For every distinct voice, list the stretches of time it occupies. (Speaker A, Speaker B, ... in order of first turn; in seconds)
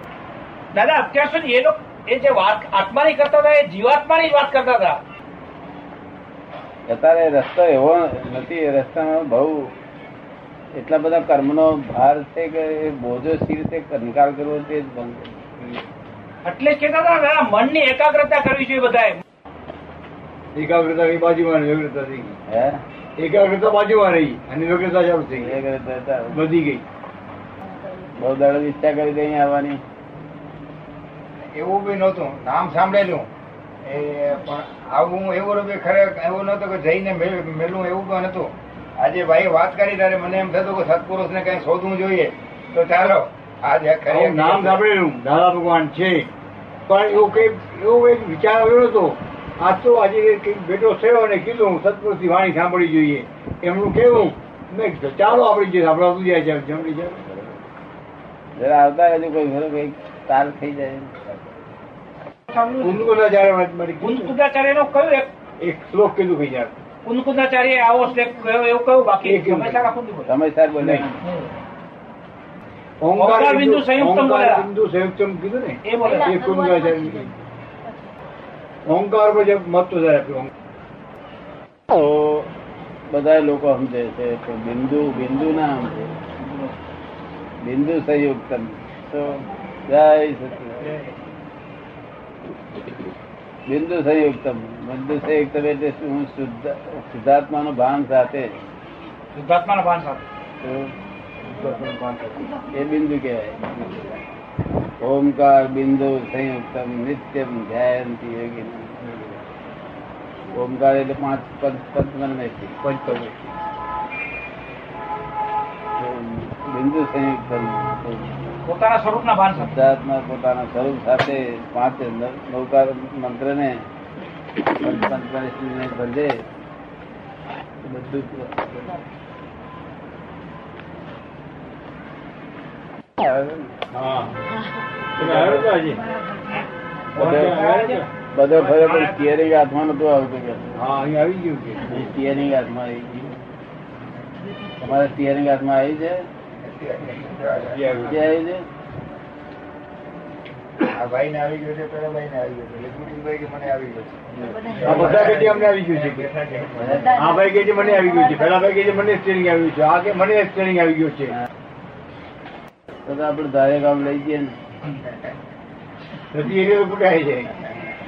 Speaker A: 0.7-5.0, 16.4-19.2, 62.5-62.9, 64.0-65.3, 67.0-70.3, 70.9-71.5, 73.2-74.7, 75.8-76.3, 99.3-100.2, 118.6-119.7, 137.2-139.2
Speaker B: 6.9-9.7, 10.7-15.4, 22.5-22.8, 25.3-26.4, 28.1-29.8, 58.6-61.2, 70.2-71.1, 81.9-82.5, 83.1-86.1, 87.6-90.9, 93.7-98.5, 100.6-100.9, 102.7-104.2, 105.0-108.9, 110.5-112.8, 116.0-118.5, 119.5-123.8, 124.8-126.4, 127.8-128.9, 133.2-133.6, 135.2-135.7, 137.2-137.6, 138.3-140.6, 141.9-143.3, 144.8-146.2, 148.0-148.7, 163.0-164.6
Speaker C: 20.5-22.4, 23.2-25.6, 26.3-26.8, 44.1-46.3, 46.9-57.2, 62.8-64.3, 65.6-66.8, 69.2-69.9, 70.8-71.1, 73.0-77.3, 78.8-80.5, 101.4-102.5, 109.0-109.4, 112.8-113.4, 133.9-134.3, 135.2-136.1, 137.1-138.1, 140.7-142.1, 147.7-148.3, 154.8-156.3, 157.0-161.3, 166.3-167.6
Speaker D: 31.5-33.3, 33.8-44.8, 146.6-148.0, 150.8-157.2